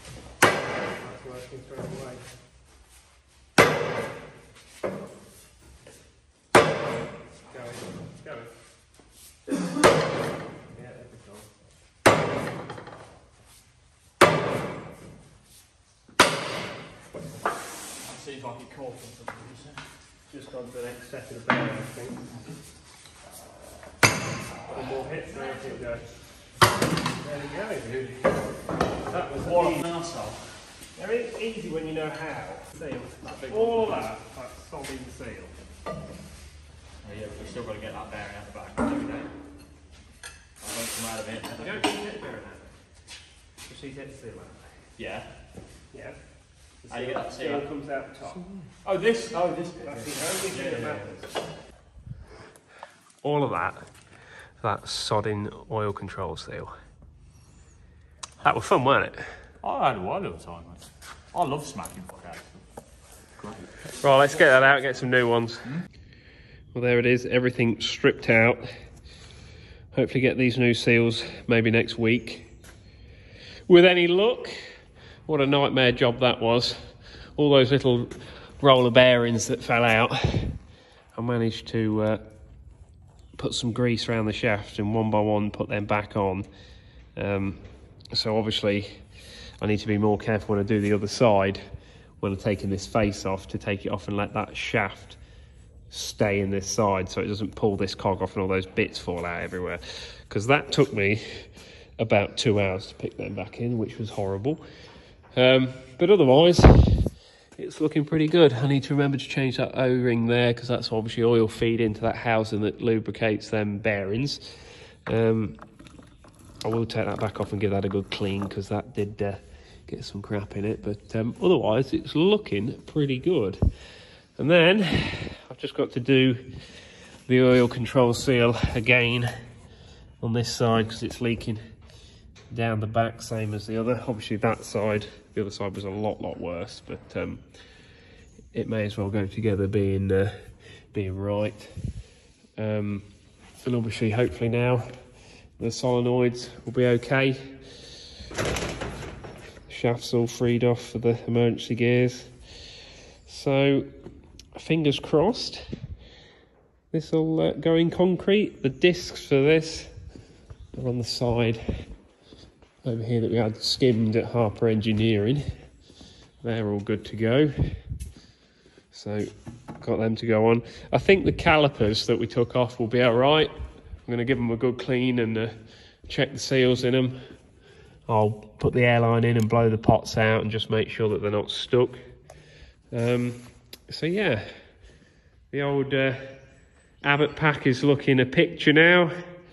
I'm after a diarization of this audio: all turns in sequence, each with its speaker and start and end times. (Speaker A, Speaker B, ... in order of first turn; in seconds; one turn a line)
Speaker A: 0.9-2.2
Speaker A: 7.5-8.5
Speaker A: 10.7-11.7
Speaker B: 18.0-19.8
Speaker A: 20.3-22.3
Speaker A: 24.7-26.2
Speaker A: 27.2-28.1
Speaker B: 27.9-28.2
Speaker A: 29.0-29.8
Speaker B: 29.3-30.6
Speaker A: 30.9-35.5
Speaker B: 33.3-34.1
Speaker B: 37.0-39.0
Speaker A: 38.9-39.3
Speaker B: 40.6-42.0
Speaker A: 41.6-42.6
Speaker A: 43.6-44.8
Speaker B: 45.0-45.3
Speaker A: 45.9-46.2
Speaker A: 46.8-48.5
Speaker B: 46.9-47.7
Speaker B: 48.8-51.3
Speaker A: 49.8-51.3
Speaker A: 53.2-54.0
Speaker A: 54.5-56.7
Speaker A: 58.4-59.4
Speaker B: 59.6-62.6
Speaker B: 63.4-64.5
Speaker A: 64.0-65.8
Speaker A: 66.7-68.6
Speaker A: 69.9-72.5
Speaker A: 73.7-74.6
Speaker A: 75.2-82.2
Speaker A: 83.3-86.5
Speaker A: 87.1-91.6
Speaker A: 92.2-95.2
Speaker A: 95.9-104.6
Speaker A: 105.3-115.6
Speaker A: 116.6-129.3
Speaker A: 130.2-131.6
Speaker A: 132.5-137.7
Speaker A: 138.5-142.0
Speaker A: 142.6-147.9
Speaker A: 149.7-152.7
Speaker A: 153.2-153.9
Speaker A: 154.5-155.9
Speaker A: 156.9-160.0
Speaker A: 160.7-161.9
Speaker A: 162.8-165.6
Speaker A: 166.4-167.9
Speaker A: 168.9-177.4
Speaker A: 178.1-182.2
Speaker A: 182.9-184.7
Speaker A: 185.5-189.1